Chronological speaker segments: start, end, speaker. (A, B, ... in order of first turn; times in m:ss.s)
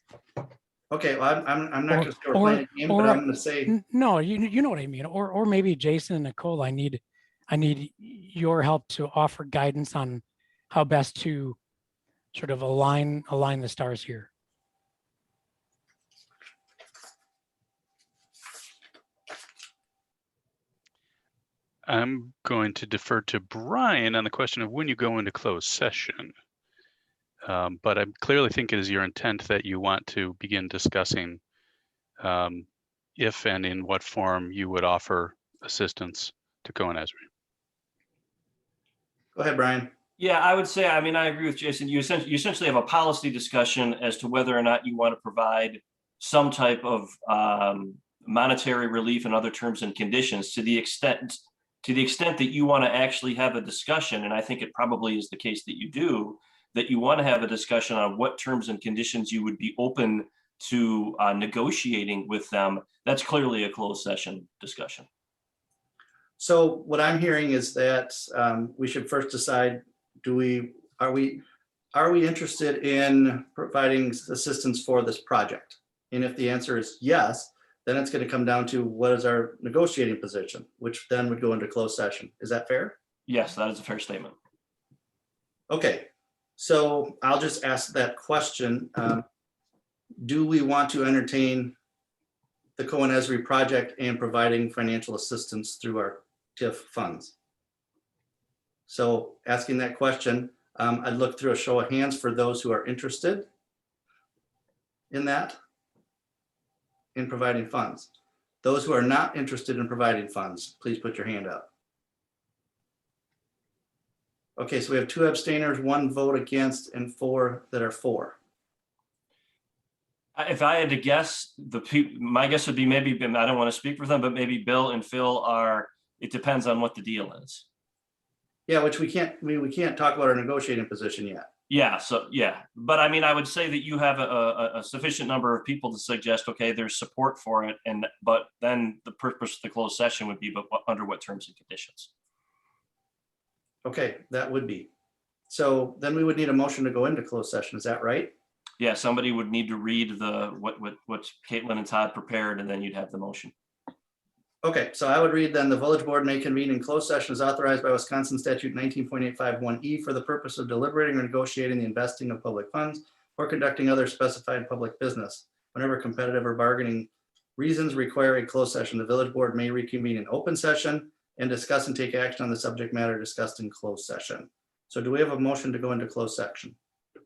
0:00.9-0:03.7 A
0:01.9-0:11.6 B
0:12.3-0:14.3 B
0:21.8-0:26.3 C
0:27.4-0:31.4 C
0:32.2-0:37.2 C
0:39.3-0:39.9 A
0:40.2-1:05.1 D
1:06.4-1:11.4 A
1:11.9-1:23.0 A
1:23.3-1:24.3 D
1:25.7-1:29.2 A
1:30.2-1:31.7 A
1:32.8-1:37.3 A
1:38.9-1:43.5 A
1:45.1-1:45.6 A
1:47.1-1:48.1 A
1:48.6-1:51.7 A
1:54.6-1:58.4 A
2:00.4-2:07.6 D
2:08.7-2:11.5 A
2:11.7-2:22.1 D
2:23.8-2:24.9 A
2:25.5-2:28.3 A
2:28.8-2:33.5 D
2:34.6-2:56.8 A